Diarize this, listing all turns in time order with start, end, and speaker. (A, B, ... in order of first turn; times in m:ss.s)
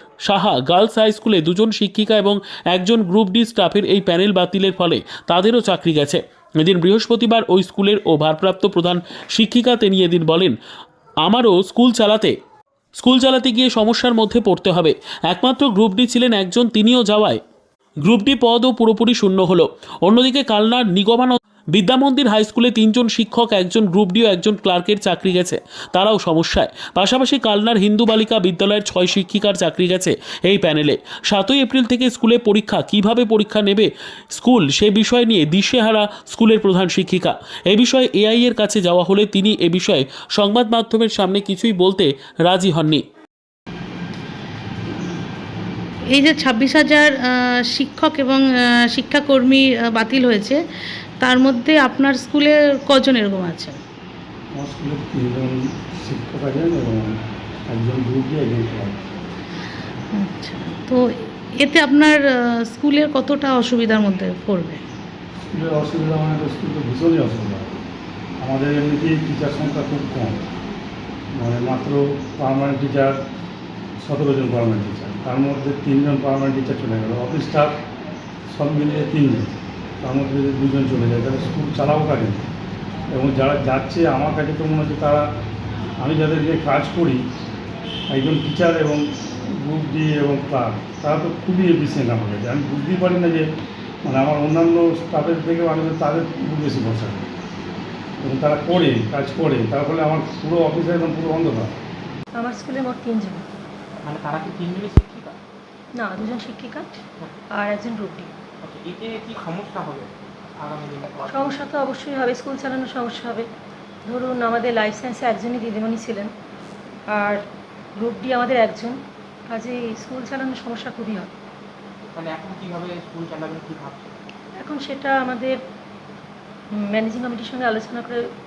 0:00.3-0:10.6 A
0:11.2-0:12.4 A
0:13.0-0:17.4 A
0:18.0-0:43.0 A
0:46.1-0:50.6 B
0:51.2-0:53.8 B
0:54.6-0:57.2 C
0:57.7-0:59.1 C
1:00.1-1:04.8 B
1:05.5-1:07.7 C
1:08.4-1:10.5 C
1:11.4-1:13.2 C
1:14.0-1:17.8 C
1:18.5-1:19.5 C
1:20.0-1:22.5 C
1:23.1-1:25.2 C
1:26.0-1:27.2 C
1:28.1-1:33.4 C
1:34.1-1:37.3 C
1:38.2-1:41.8 C
1:42.4-1:43.5 D
1:44.0-1:45.4 E
1:46.0-1:48.3 D
1:48.6-1:51.6 E
1:51.3-1:53.5 D
1:54.1-1:56.3 D
1:57.1-1:57.4 D
1:58.0-2:01.3 D
2:02.1-2:04.2 E
2:04.6-2:05.6 D
2:06.7-2:08.2 D